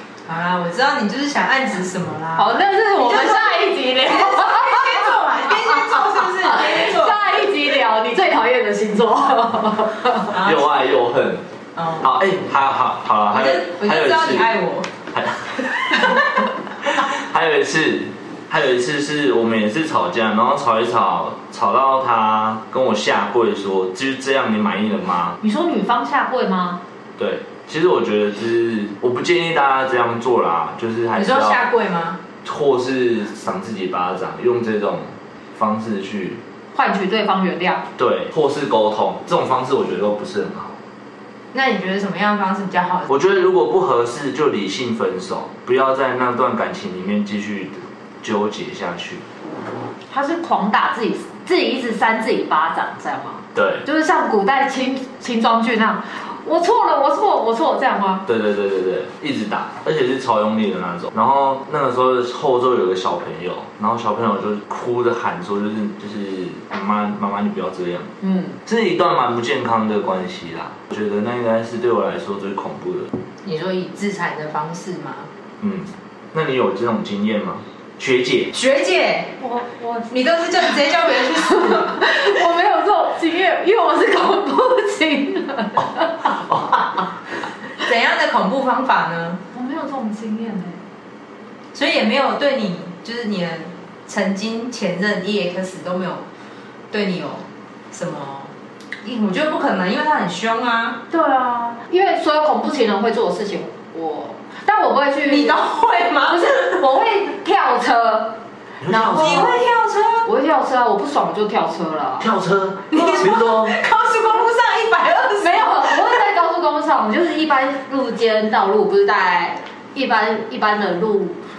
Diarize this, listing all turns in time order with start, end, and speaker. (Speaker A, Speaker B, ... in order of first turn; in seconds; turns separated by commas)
Speaker A: 0.3-7.5, Speaker B: 2.4-10.3, Speaker A: 10.3-10.7, Speaker C: 10.3-11.5, Speaker A: 11.8-12.1, Speaker C: 12.0-14.5, Speaker A: 13.3-14.9, Speaker C: 15.1-16.3, Speaker C: 16.8-25.4, Speaker B: 25.4-26.8, Speaker C: 27.2-31.6, Speaker A: 31.2-32.2, Speaker C: 32.5-36.4, Speaker B: 36.7-37.9, Speaker C: 38.0-40.8, Speaker A: 41.5-43.1, Speaker C: 43.1-49.2, Speaker B: 50.1-58.2, Speaker C: 53.5-53.8, Speaker C: 58.3-68.1, Speaker B: 68.2-68.6, Speaker C: 68.7-73.1, Speaker A: 73.4-75.3, Speaker C: 75.6-78.5, Speaker A: 78.5-79.4, Speaker B: 79.4-80.1, Speaker A: 80.1-82.0, Speaker B: 81.5-86.8, Speaker C: 85.8-86.7, Speaker A: 87.8-89.4, Speaker B: 89.5-90.8, Speaker A: 91.7-96.2, Speaker A: 96.9-98.5, Speaker A: 99.0-101.0, Speaker B: 101.1-105.6, Speaker A: 105.3-106.8, Speaker B: 106.3-109.7, Speaker C: 108.8-109.7, Speaker A: 109.2-110.3, Speaker B: 110.2-112.3, Speaker C: 112.2-113.8, Speaker A: 112.9-116.2, Speaker B: 115.4-121.4